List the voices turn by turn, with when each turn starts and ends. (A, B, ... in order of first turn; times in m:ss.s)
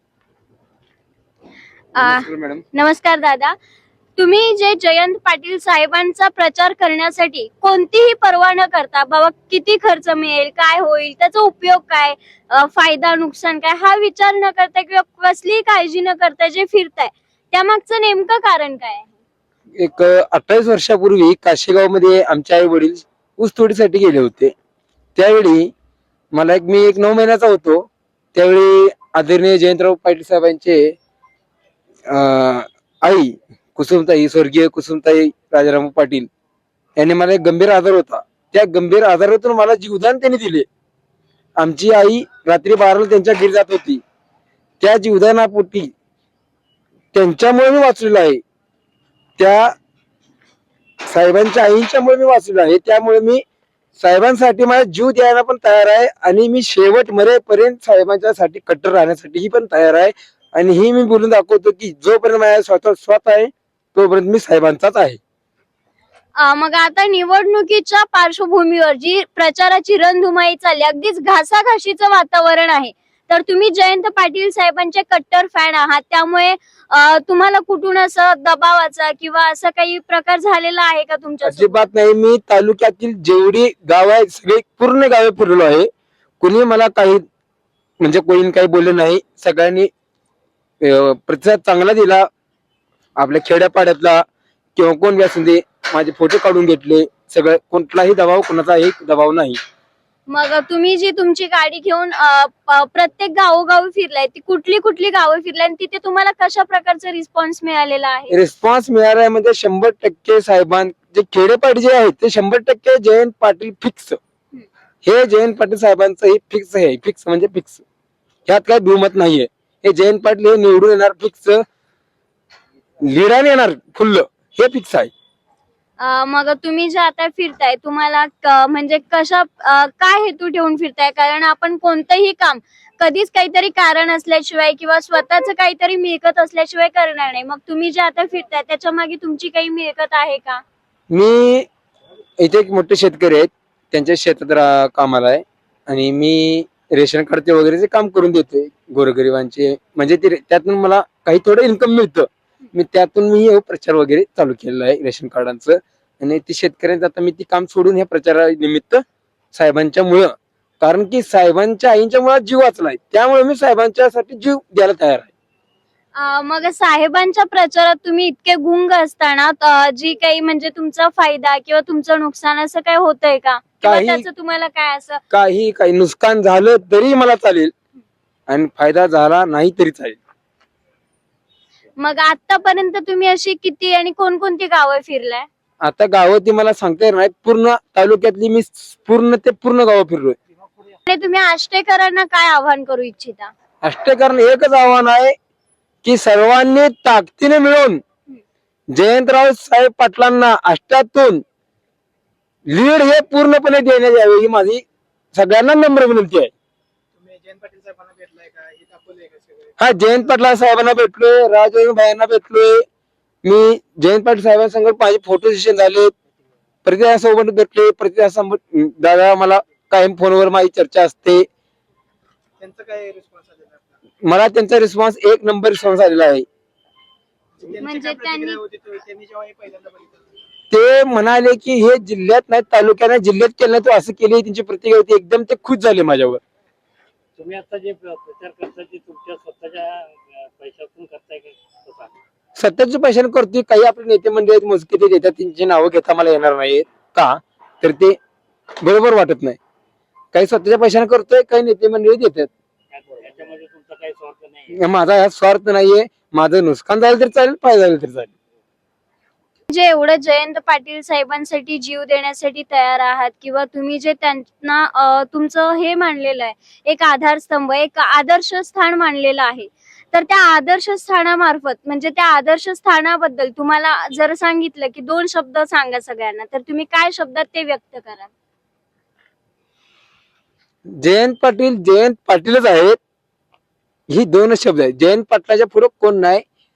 0:02.0-0:03.6 A
0:02.0-0:02.6 B
0:04.2-0:19.2 A
0:19.8-0:24.5 B
0:25.2-0:25.7 B
0:26.3-0:31.0 B
0:32.1-0:36.3 B
0:37.0-0:40.7 B
0:41.6-0:44.0 B
0:44.8-0:45.9 B
0:47.1-0:48.4 B
0:49.4-0:49.7 B
0:51.1-0:53.4 B
0:54.0-1:05.2 B
1:06.4-1:21.8 A
1:21.4-1:25.9 B
1:26.4-1:27.2 B
1:28.0-1:29.9 B
1:30.8-1:32.3 B
1:33.2-1:34.2 B
1:34.8-1:39.6 B
1:40.3-1:48.4 A
1:48.3-1:54.2 B
1:55.0-1:57.8 B
1:58.5-2:01.6 B
2:03.0-2:05.1 B
2:06.0-2:20.6 A
2:21.1-2:21.7 B
2:22.4-2:39.0 B
2:39.5-2:45.3 B
2:46.1-2:55.2 A
2:53.8-2:54.2 B
2:55.3-2:57.7 B
2:58.5-3:00.2 B
3:02.0-3:05.5 A
3:05.8-3:10.4 B
3:11.1-3:13.5 A
3:13.8-3:15.4 B
3:16.0-3:18.0 B
3:18.9-3:21.4 B
3:22.7-3:24.8 B
3:25.3-3:26.5 B
3:27.1-3:29.8 C
3:29.8-3:32.8 B
3:33.4-3:36.1 B
3:36.8-3:41.4 B
3:42.6-3:44.0 C
3:44.2-3:46.4 B
3:47.6-3:50.4 C
3:47.8-3:48.6 A
3:50.7-3:56.4 B
3:57.4-4:02.1 D
4:02.6-4:08.2 B
4:08.8-4:09.6 B
4:10.3-4:12.5 B
4:12.9-4:14.8 D
4:14.7-4:18.3 B
4:19.7-4:38.3 A
4:40.9-4:43.0 B
4:44.1-4:46.4 B